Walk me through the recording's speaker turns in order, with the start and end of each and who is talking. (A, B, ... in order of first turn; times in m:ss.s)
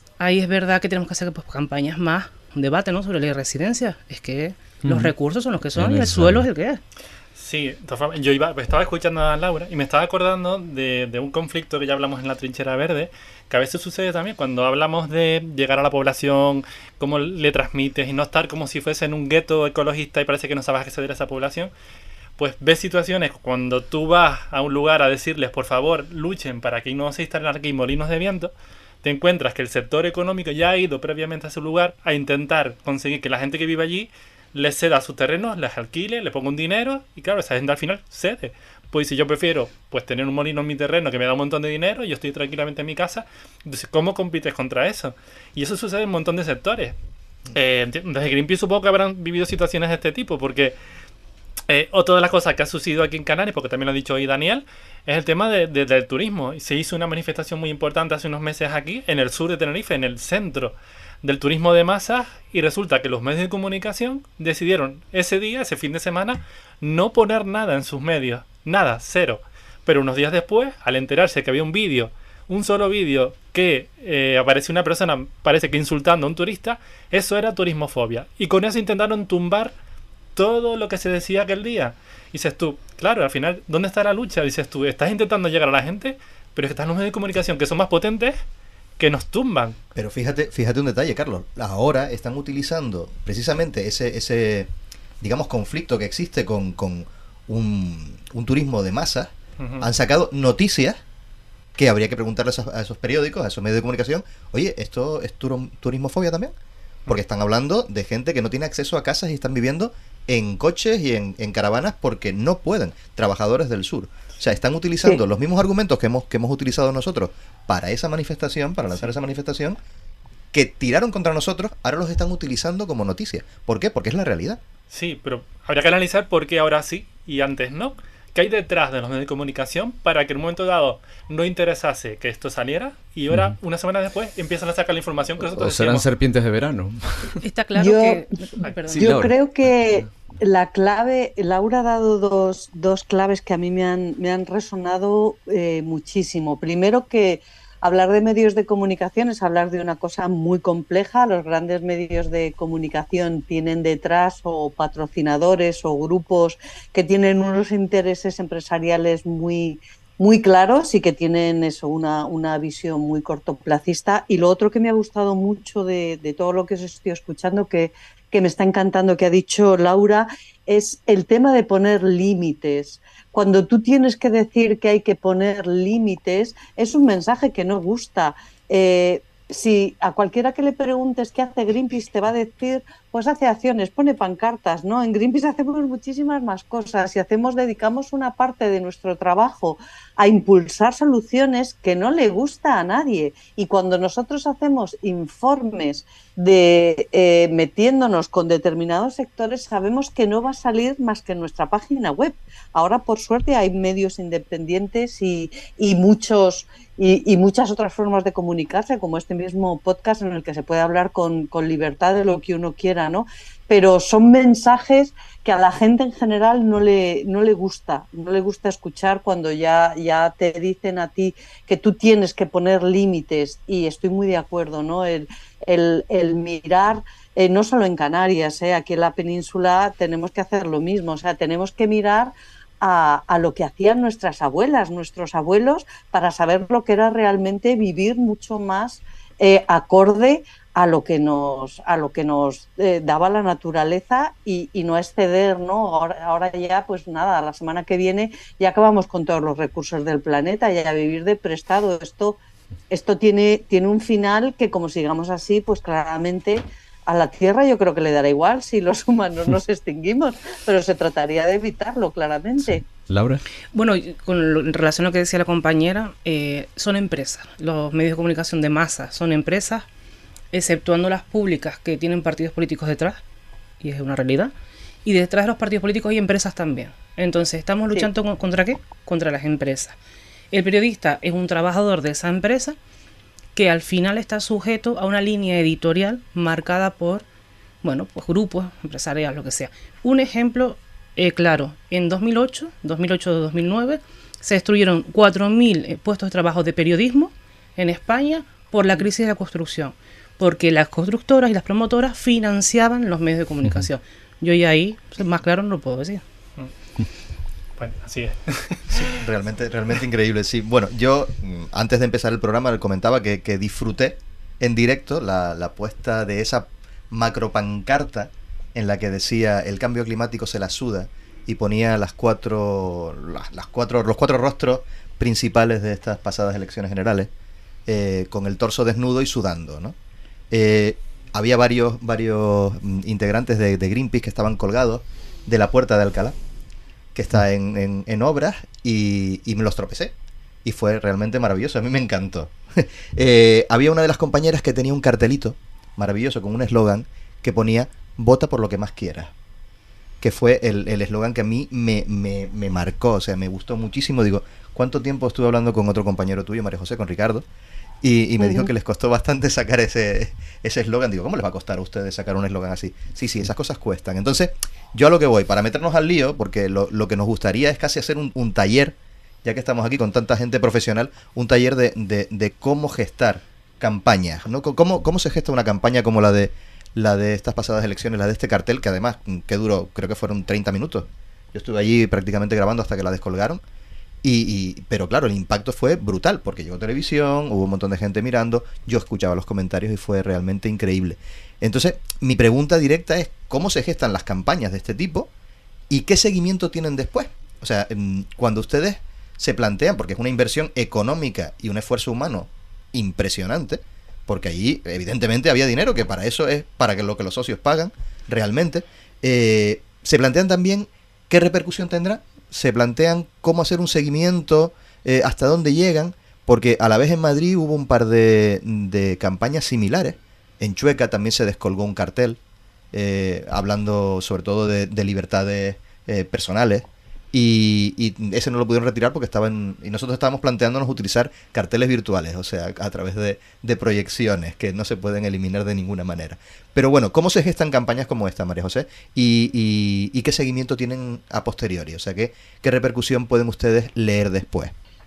0:00.2-0:06.8 A
0:04.8-0:05.1 B
0:05.7-0:06.5 B
0:07.4-0:21.7 C
0:22.4-0:28.5 C
0:29.0-0:47.0 C
0:47.5-0:50.8 C
0:51.7-1:19.7 C
1:20.4-1:28.4 C
1:29.0-1:29.8 C
1:30.0-1:34.7 D
1:35.2-1:41.0 D
1:39.6-1:39.8 C
1:41.8-1:46.5 D
1:47.1-1:59.8 D
2:00.5-2:04.6 D
2:04.9-2:16.1 C
2:15.4-2:17.4 B
2:17.4-2:19.2 A
2:17.8-2:18.2 E
2:18.9-2:20.1 B
2:19.0-4:12.4 E
4:12.9-4:22.8 E
4:22.9-4:23.4 B
4:23.7-4:29.9 A
4:30.5-4:33.2 A
4:33.8-4:34.5 A
4:35.0-4:40.0 A
4:40.5-4:42.8 A
4:43.6-4:47.3 A
4:47.8-5:06.2 A
5:07.8-5:09.1 C
5:08.9-5:27.3 D
5:27.9-5:30.0 D
5:30.5-5:36.4 D
5:37.1-5:40.1 D
5:40.6-5:49.3 D
5:50.2-5:57.4 D
5:58.0-6:23.6 D
5:58.4-5:58.7 E
6:24.2-6:35.3 D
6:35.9-7:02.4 D
7:02.9-7:24.7 D